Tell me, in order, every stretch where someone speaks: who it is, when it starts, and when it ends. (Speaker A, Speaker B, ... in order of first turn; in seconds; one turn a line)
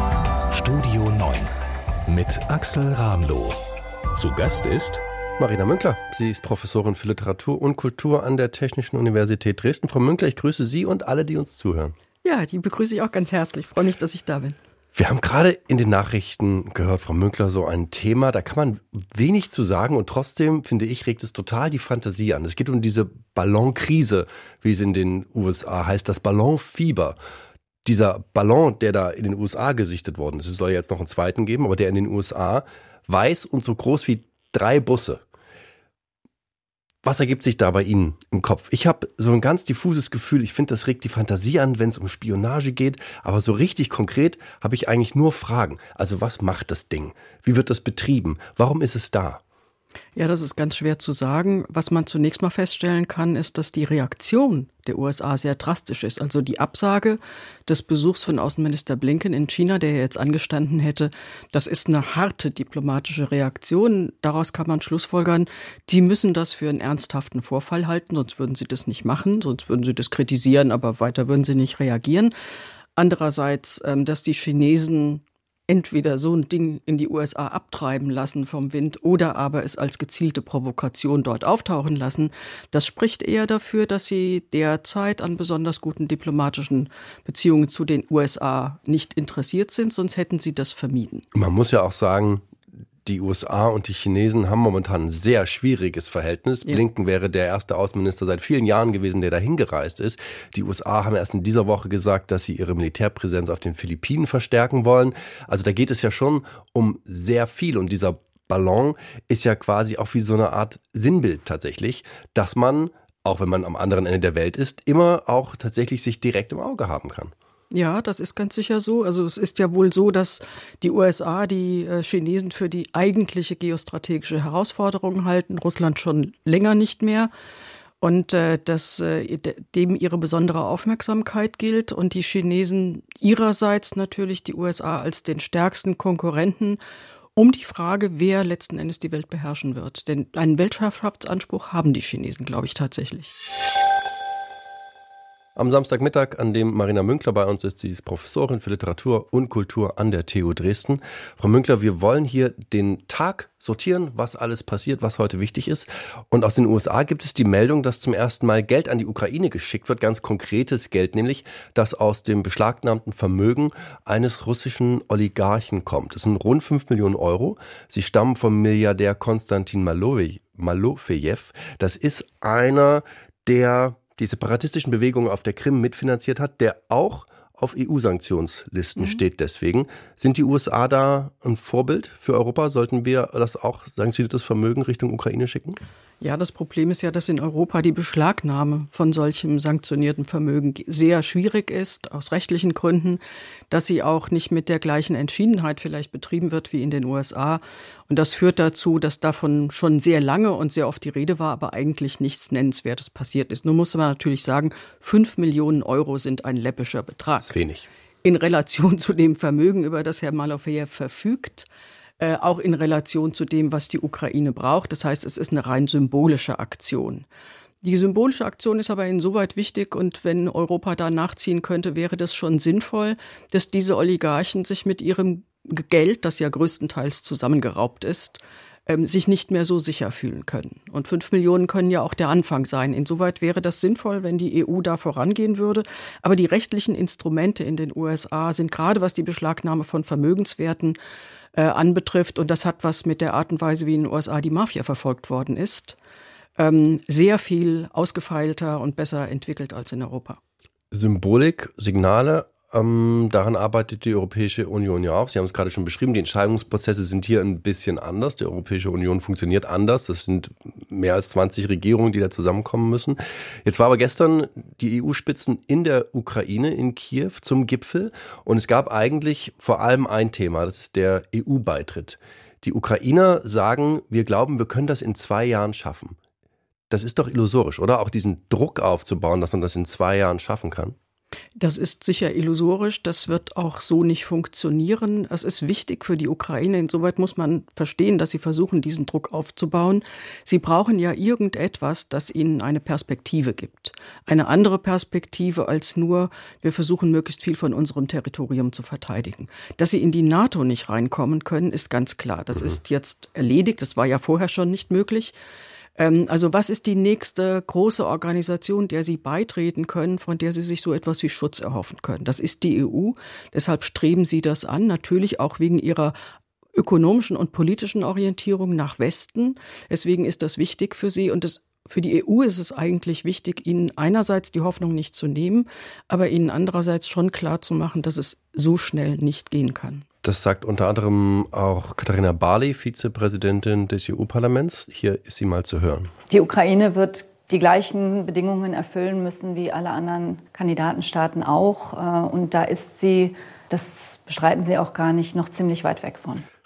Speaker A: 0.5-1.5
Speaker A: 2.1-3.6
Speaker A: 4.1-5.0
Speaker B: 5.4-11.9
Speaker C: 12.2-14.6
Speaker B: 14.9-27.2
Speaker B: 27.9-35.2
Speaker B: 37.0-49.4
Speaker C: 50.2-72.3
Speaker C: 73.0-91.3
Speaker B: 91.3-92.5
Speaker B: 93.0-117.3
Speaker C: 117.7-127.3
Speaker C: 128.0-136.8
Speaker C: 137.4-143.3
Speaker B: 145.6-185.8
Speaker C: 186.2-207.5
Speaker B: 207.5-207.9
Speaker C: 208.2-211.7
Speaker C: 212.2-217.3
Speaker C: 217.8-241.0
Speaker C: 241.6-246.0
Speaker C: 246.6-250.4
Speaker B: 250.9-276.2
Speaker B: 276.9-281.0
Speaker C: 281.6-305.3
Speaker C: 306.0-316.1
Speaker C: 316.8-330.1
Speaker B: 330.2-336.1
Speaker D: 336.3-346.4